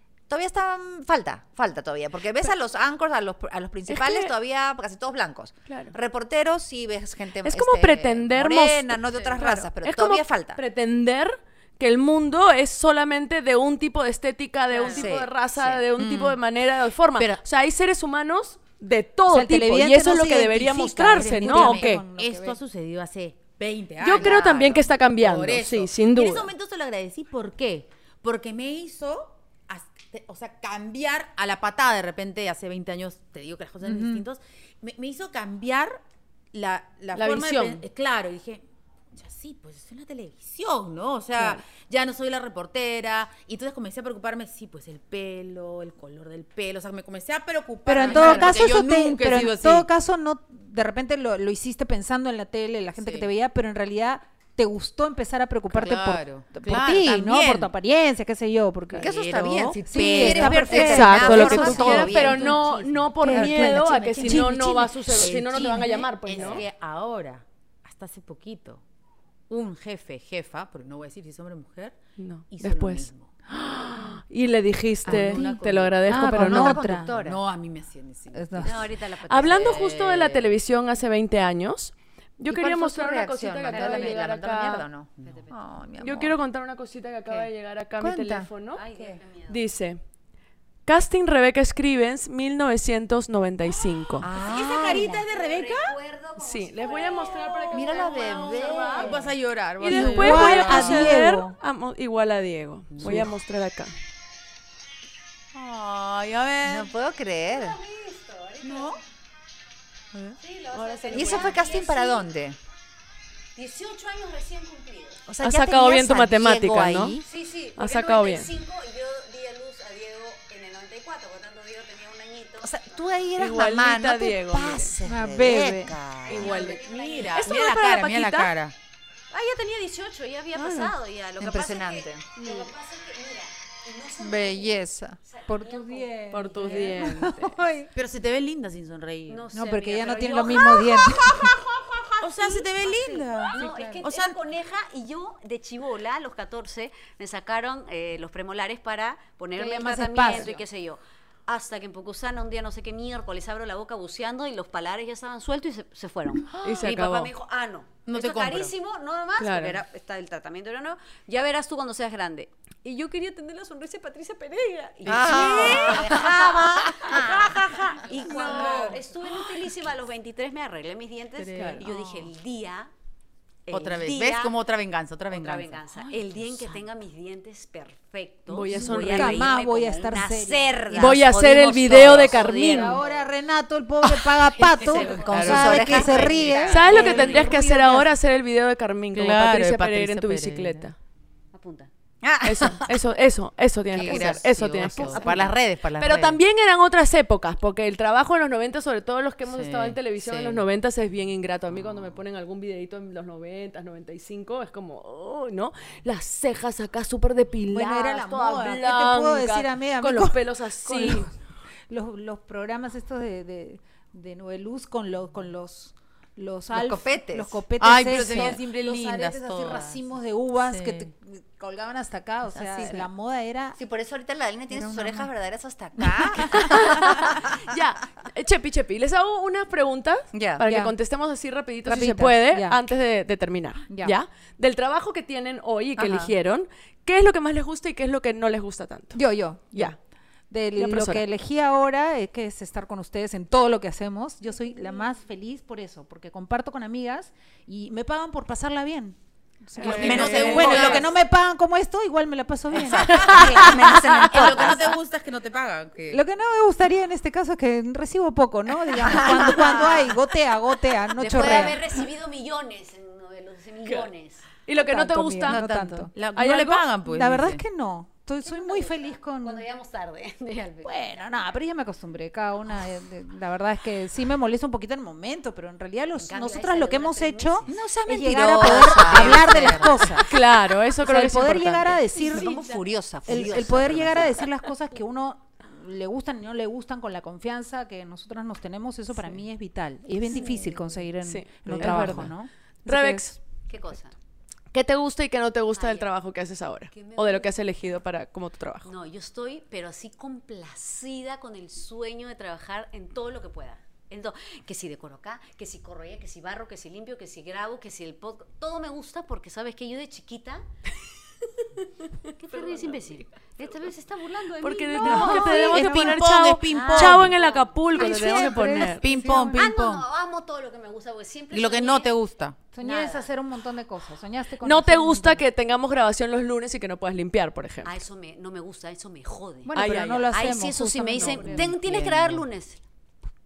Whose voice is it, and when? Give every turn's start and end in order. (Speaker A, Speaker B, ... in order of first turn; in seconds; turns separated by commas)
Speaker A: 0.3-10.6, Speaker B: 3.9-4.3, Speaker B: 5.7-5.9, Speaker B: 7.4-22.0, Speaker C: 14.7-15.2, Speaker A: 14.8-15.8, Speaker C: 16.0-16.4, Speaker C: 17.2-17.4, Speaker D: 19.3-22.6, Speaker C: 21.2-36.0, Speaker B: 24.0-26.5, Speaker D: 33.8-34.2, Speaker C: 36.5-49.9, Speaker B: 37.1-37.8, Speaker B: 41.4-41.6, Speaker D: 47.9-59.2, Speaker B: 48.0-48.6, Speaker C: 53.0-53.3, Speaker C: 55.7-57.7, Speaker C: 58.9-68.8, Speaker A: 59.0-63.6, Speaker D: 59.8-62.6, Speaker B: 60.7-66.6, Speaker E: 61.5-62.7, Speaker D: 63.2-65.7, Speaker C: 69.5-72.0, Speaker B: 72.2-76.8, Speaker C: 72.5-73.3, Speaker C: 75.1-76.1, Speaker D: 75.1-77.1, Speaker A: 76.2-77.4, Speaker C: 77.0-78.9, Speaker D: 78.3-78.9, Speaker E: 78.6-79.9, Speaker B: 79.3-84.8, Speaker C: 79.5-80.5, Speaker A: 82.5-86.3, Speaker E: 83.7-84.2, Speaker C: 85.2-85.4, Speaker E: 85.2-85.5, Speaker B: 86.0-88.8, Speaker A: 88.0-88.5, Speaker C: 88.1-88.4, Speaker E: 88.7-89.6, Speaker B: 89.5-90.0, Speaker B: 90.9-94.3, Speaker A: 94.2-95.2, Speaker E: 94.2-99.3, Speaker C: 94.4-96.0, Speaker B: 96.4-98.9, Speaker A: 97.7-99.3, Speaker C: 98.9-101.2, Speaker B: 99.8-103.9, Speaker D: 99.9-101.5, Speaker C: 102.9-103.3, Speaker C: 105.5-106.9, Speaker A: 106.6-107.8, Speaker E: 107.5-109.0, Speaker C: 108.6-109.0, Speaker E: 110.4-112.3, Speaker B: 110.7-111.6, Speaker A: 111.1-112.6, Speaker E: 113.6-115.2, Speaker A: 115.3-117.2, Speaker B: 115.4-117.2, Speaker E: 117.2-122.7, Speaker B: 117.8-118.5, Speaker A: 122.6-126.6, Speaker B: 123.4-125.0, Speaker D: 125.1-126.0, Speaker B: 126.3-126.8, Speaker E: 126.3-127.5, Speaker C: 126.5-128.8, Speaker B: 127.3-128.5, Speaker E: 129.3-137.1, Speaker B: 130.6-131.0, Speaker A: 131.4-132.3, Speaker A: 134.3-135.2, Speaker C: 134.3-134.7, Speaker D: 135.5-137.9, Speaker B: 136.3-137.5, Speaker C: 137.9-139.5, Speaker E: 139.3-172.9, Speaker D: 139.5-141.6, Speaker C: 141.2-141.5, Speaker C: 142.2-144.4, Speaker D: 143.6-144.0, Speaker D: 149.5-150.6, Speaker C: 156.5-156.8, Speaker B: 156.6-157.3, Speaker C: 158.1-158.7, Speaker B: 159.4-159.8, Speaker C: 165.0-169.0, Speaker A: 165.1-167.5, Speaker B: 165.5-166.0, Speaker B: 168.4-168.9, Speaker C: 171.4-172.3, Speaker B: 171.5-171.8, Speaker E: 173.7-174.6, Speaker C: 173.7-176.8, Speaker E: 175.3-183.3, Speaker B: 178.5-179.5, Speaker D: 178.9-188.1, Speaker A: 180.0-182.7, Speaker B: 180.9-183.0, Speaker C: 184.1-187.6, Speaker E: 184.8-187.6, Speaker A: 184.9-187.5, Speaker B: 186.7-190.9, Speaker C: 189.1-190.9, Speaker E: 191.5-191.9, Speaker A: 192.2-192.9, Speaker B: 192.4-195.4, Speaker C: 193.9-196.4, Speaker E: 194.0-195.5, Speaker B: 196.0-211.3, Speaker C: 199.5-200.7, Speaker D: 207.7-211.3, Speaker D: 211.9-223.8, Speaker A: 216.7-217.7, Speaker C: 217.8-220.0, Speaker A: 218.2-218.6, Speaker C: 220.6-221.1, Speaker C: 222.5-223.1, Speaker A: 223.8-227.6, Speaker D: 224.7-225.3, Speaker D: 226.1-226.8, Speaker B: 226.5-239.2, Speaker A: 230.3-230.6, Speaker D: 230.6-230.9, Speaker D: 231.8-232.8, Speaker D: 233.9-234.2, Speaker A: 236.0-236.3, Speaker D: 239.2-240.0, Speaker D: 240.5-254.7, Speaker B: 240.8-241.2, Speaker A: 249.8-251.1, Speaker C: 249.8-251.1, Speaker B: 249.9-250.8, Speaker A: 252.7-255.0, Speaker B: 253.3-254.1, Speaker C: 254.3-256.2, Speaker D: 256.1-261.8, Speaker A: 259.0-259.8, Speaker C: 259.5-259.9, Speaker E: 261.2-264.5, Speaker B: 264.7-266.9, Speaker D: 264.7-266.1, Speaker C: 265.4-267.6, Speaker D: 267.1-269.6, Speaker E: 268.4-271.3, Speaker D: 270.8-280.4, Speaker E: 276.2-277.8, Speaker A: 277.7-280.2, Speaker C: 278.8-280.0, Speaker B: 280.1-282.0, Speaker D: 281.0-282.6, Speaker E: 282.2-282.7, Speaker A: 282.2-284.5, Speaker D: 283.3-293.3, Speaker C: 283.4-283.7, Speaker E: 290.3-290.9, Speaker B: 291.2-292.3, Speaker A: 291.7-292.3, Speaker B: 292.9-293.4, Speaker E: 293.7-294.1, Speaker B: 294.7-298.9, Speaker E: 295.8-296.1, Speaker E: 296.9-297.6, Speaker E: 298.9-310.6, Speaker E: 312.3-316.1, Speaker B: 312.7-313.0, Speaker B: 314.6-319.1, Speaker D: 315.0-315.6, Speaker C: 315.1-317.4, Speaker E: 316.7-322.1, Speaker D: 318.1-319.7, Speaker C: 318.3-320.1, Speaker C: 321.5-322.6, Speaker D: 322.7-325.5, Speaker E: 322.8-323.3, Speaker B: 324.6-327.9, Speaker E: 327.8-332.8, Speaker D: 329.7-331.8, Speaker B: 329.7-330.3, Speaker C: 331.3-332.5